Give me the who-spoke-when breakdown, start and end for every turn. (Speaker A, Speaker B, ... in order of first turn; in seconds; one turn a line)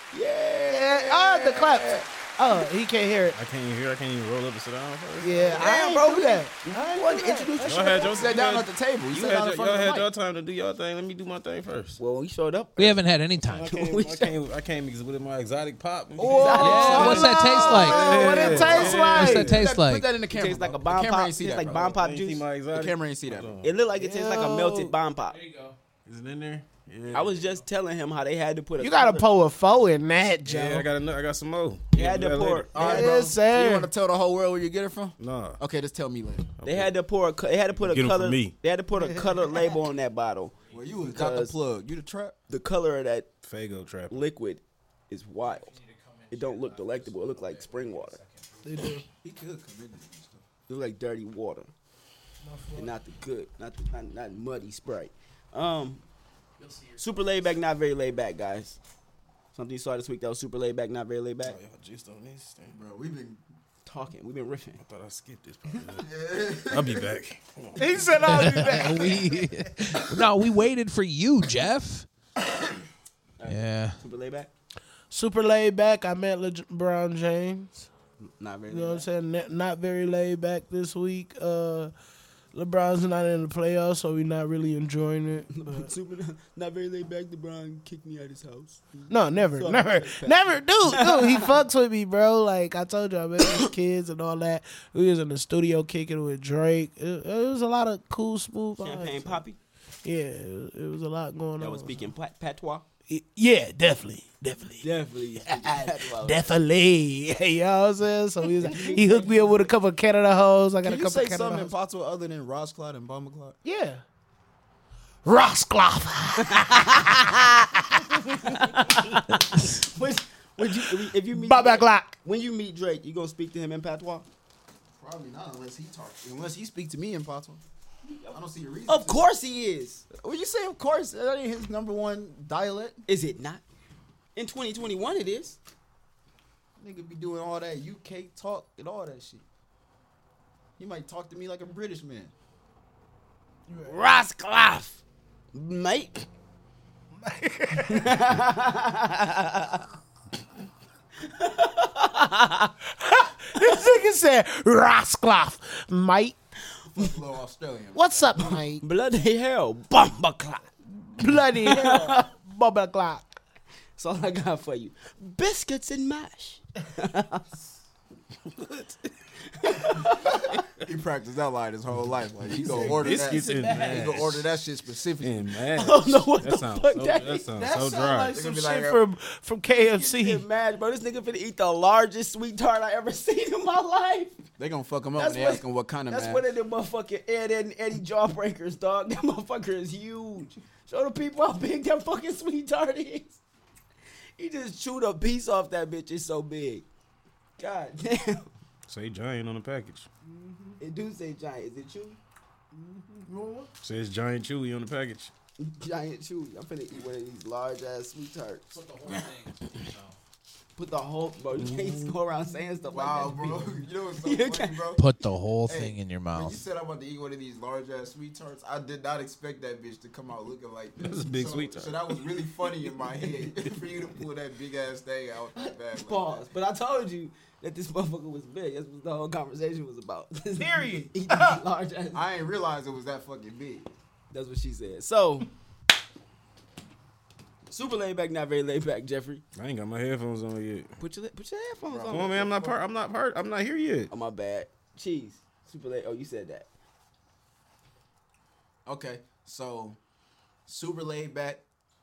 Speaker A: 0.1-2.1
Speaker B: 0.7-3.4
Speaker C: 3.3-5.6
Speaker B: 5.2-8.1
Speaker A: 5.5-8.2
Speaker C: 7.6-12.0
Speaker D: 8.0-10.1
Speaker A: 12.0-13.0
Speaker E: 12.8-13.7
Speaker C: 13.4-19.7
Speaker A: 13.7-14.4
Speaker D: 16.2-21.9
Speaker A: 16.2-17.9
Speaker B: 16.4-19.6
Speaker E: 16.6-18.3
Speaker E: 19.1-20.1
Speaker A: 20.3-22.5
Speaker C: 21.7-23.8
Speaker D: 22.7-23.6
Speaker A: 23.6-25.4
Speaker B: 24.0-24.9
Speaker E: 25.3-25.8
Speaker C: 26.1-27.6
Speaker A: 27.1-29.3
Speaker B: 28.8-30.9
Speaker C: 30.4-32.7
Speaker A: 31.9-33.2
Speaker D: 32.7-36.5
Speaker B: 32.8-33.9
Speaker C: 35.2-35.6
Speaker C: 36.6-37.0
Speaker A: 36.6-41.6
Speaker C: 37.8-38.6
Speaker B: 39.0-39.6
Speaker D: 40.7-42.4
Speaker A: 42.5-43.3
Speaker C: 43.4-44.2
Speaker A: 44.1-45.8
Speaker E: 45.8-48.5
Speaker A: 46.3-48.2
Speaker B: 48.6-49.0
Speaker D: 49.2-50.4
Speaker A: 50.7-51.7
Speaker B: 52.4-53.0
Speaker A: 52.8-56.0
Speaker A: 57.0-58.8
Speaker A: 59.5-61.6
Speaker C: 61.4-62.8
Speaker D: 62.7-63.4
Speaker A: 63.9-64.8
Speaker C: 64.8-66.1
Speaker D: 66.0-67.1
Speaker C: 66.7-68.2
Speaker B: 67.8-69.5
Speaker E: 68.3-72.1
Speaker A: 73.4-74.5
Speaker E: 73.5-74.0
Speaker B: 75.1-77.9
Speaker A: 78.2-79.1
Speaker B: 78.7-81.9
Speaker B: 82.5-85.9
Speaker A: 85.5-91.6
Speaker B: 89.1-99.4
Speaker A: 98.8-99.6
Speaker B: 100.0-102.0
Speaker A: 101.6-102.8
Speaker B: 103.1-104.9
Speaker A: 104.8-106.5
Speaker B: 105.4-111.7
Speaker A: 108.6-109.7
Speaker D: 110.8-113.6
Speaker B: 113.6-114.0
Speaker B: 115.2-118.1
Speaker A: 116.5-117.7
Speaker A: 118.3-124.3
Speaker B: 121.3-122.2
Speaker D: 125.0-127.6
Speaker A: 128.0-130.1
Speaker D: 128.3-129.2
Speaker D: 130.1-133.0
Speaker A: 133.1-133.6
Speaker A: 134.3-135.6
Speaker D: 136.8-139.4
Speaker D: 140.8-142.3
Speaker B: 143.7-144.0
Speaker A: 143.8-145.0
Speaker A: 145.5-146.3
Speaker B: 147.2-148.2
Speaker A: 147.9-149.9
Speaker A: 151.2-152.7
Speaker B: 153.0-156.4
Speaker D: 157.0-158.4
Speaker B: 157.9-158.8
Speaker A: 158.4-160.7
Speaker B: 161.0-163.3
Speaker A: 161.6-162.3
Speaker A: 164.0-167.4
Speaker C: 168.5-169.0
Speaker A: 169.6-170.6
Speaker D: 170.8-175.5
Speaker A: 172.6-174.3
Speaker C: 172.7-174.5
Speaker C: 175.2-178.4
Speaker A: 175.8-177.5
Speaker B: 177.5-180.4
Speaker D: 178.3-179.0
Speaker A: 179.7-184.4
Speaker D: 184.6-186.4
Speaker A: 185.2-193.4
Speaker A: 194.4-196.8
Speaker A: 197.6-198.5
Speaker C: 198.9-200.1
Speaker B: 200.3-200.8
Speaker A: 200.8-202.2
Speaker B: 202.7-203.7
Speaker C: 203.8-205.3
Speaker A: 205.6-209.1
Speaker E: 208.8-210.1
Speaker A: 210.8-215.0
Speaker C: 211.6-212.1
Speaker D: 212.9-215.0
Speaker E: 215.0-216.6
Speaker D: 215.7-226.5
Speaker C: 221.0-222.1
Speaker A: 225.6-232.3
Speaker B: 230.6-231.6
Speaker D: 232.1-233.9
Speaker A: 234.3-235.5
Speaker A: 237.7-239.4
Speaker C: 239.6-240.9
Speaker A: 241.0-242.7
Speaker D: 241.9-242.7
Speaker C: 242.1-244.1
Speaker A: 244.1-246.7
Speaker D: 248.9-250.0
Speaker D: 250.7-251.6